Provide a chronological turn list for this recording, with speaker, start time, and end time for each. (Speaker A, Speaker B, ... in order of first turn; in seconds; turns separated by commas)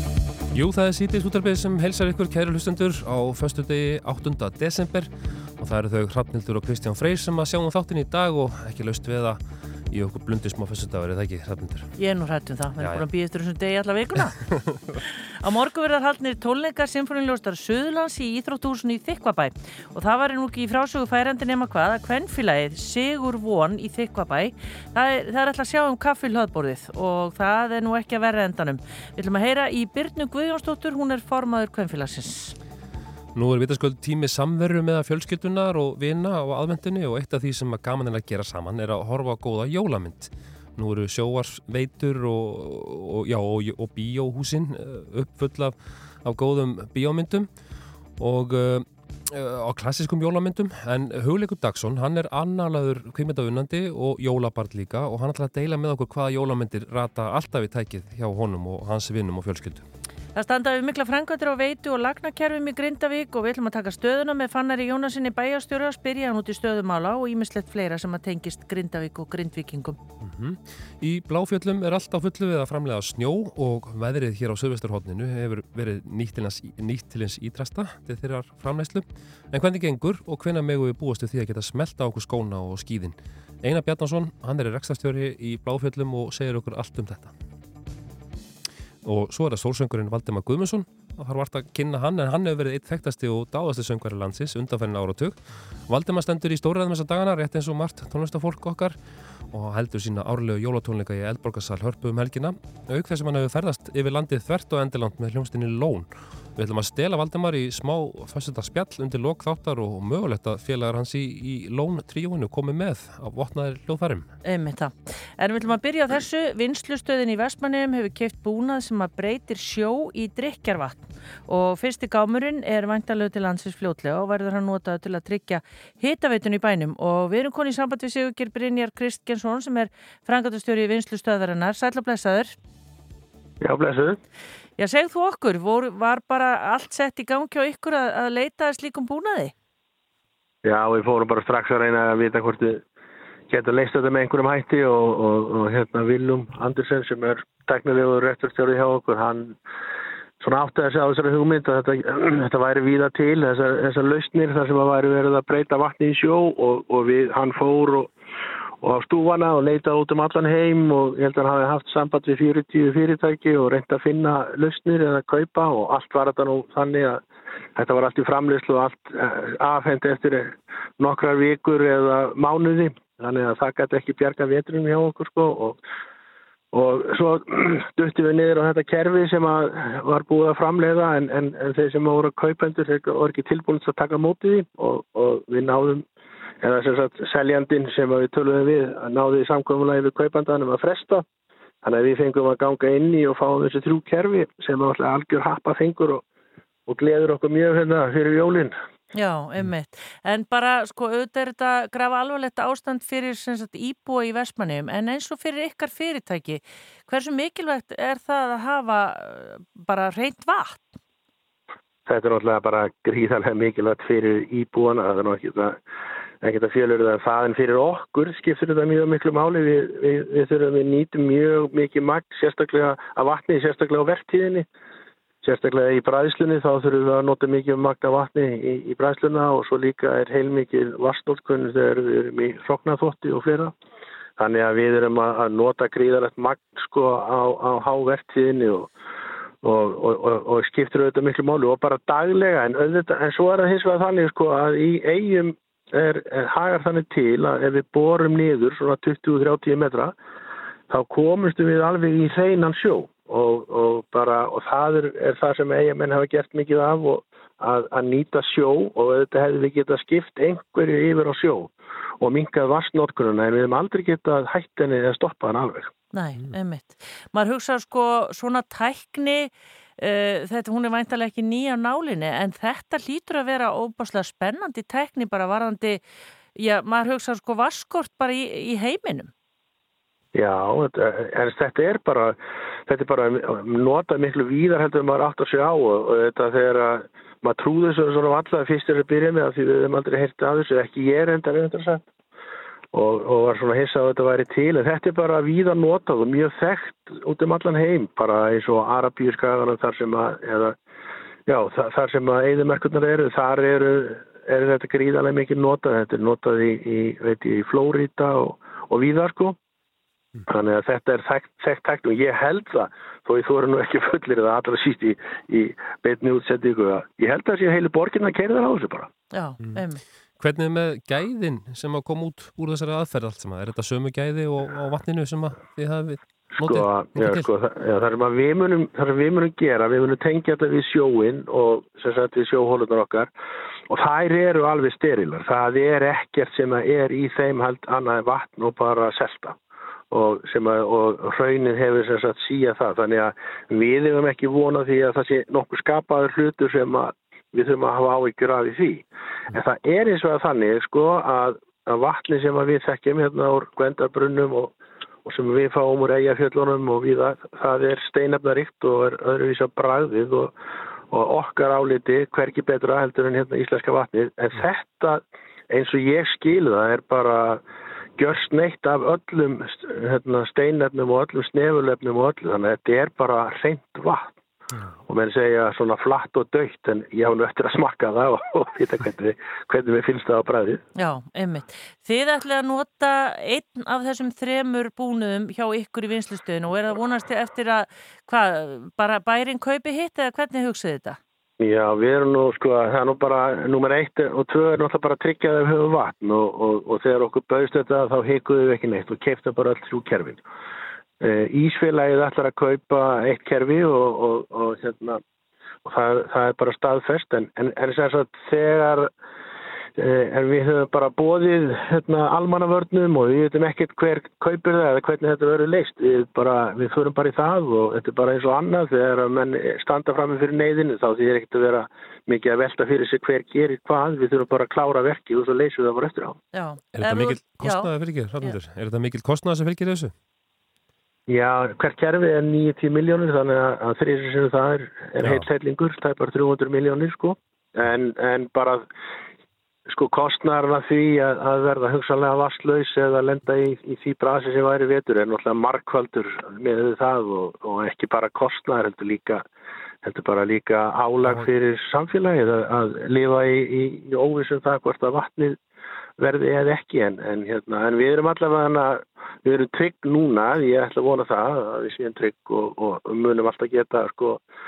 Speaker A: 0.5-11.9, Speaker B: 12.0-14.4, Speaker A: 12.8-13.1, Speaker A: 14.4-15.0, Speaker B: 15.4-32.5, Speaker A: 33.4-47.5, Speaker A: 48.2-59.9, Speaker B: 60.4-70.0, Speaker A: 70.2-87.3, Speaker A: 89.0-99.0, Speaker A: 99.5-114.3, Speaker B: 114.5-132.6, Speaker C: 133.6-134.2, Speaker B: 134.8-139.5, Speaker C: 140.6-142.8, Speaker C: 143.5-149.6, Speaker C: 150.4-158.1, Speaker C: 158.8-167.2, Speaker C: 167.8-175.8, Speaker C: 176.7-186.1, Speaker C: 186.6-191.2, Speaker C: 191.8-196.2, Speaker C: 196.9-198.8, Speaker B: 199.1-211.0, Speaker C: 212.1-215.8, Speaker C: 216.4-224.7, Speaker C: 225.4-233.7, Speaker C: 234.4-238.9, Speaker C: 239.6-250.2, Speaker C: 250.9-265.9, Speaker B: 266.1-276.0, Speaker B: 276.6-279.3, Speaker C: 280.3-292.0, Speaker C: 292.9-300.8, Speaker C: 301.5-309.6, Speaker C: 310.5-319.1, Speaker B: 319.3-320.0, Speaker A: 320.4-327.5, Speaker C: 326.6-333.3, Speaker C: 333.9-339.6, Speaker C: 340.1-360.5, Speaker C: 361.1-367.6, Speaker C: 368.2-374.3, Speaker C: 375.1-380.8, Speaker B: 381.0-391.2, Speaker C: 391.6-400.4, Speaker C: 401.2-405.2, Speaker C: 405.9-409.1, Speaker C: 410.0-426.4, Speaker B: 426.5-427.9, Speaker A: 426.9-430.1, Speaker C: 431.3-438.9, Speaker A: 435.2-435.5, Speaker C: 439.9-449.4, Speaker C: 450.0-455.6, Speaker C: 456.2-464.4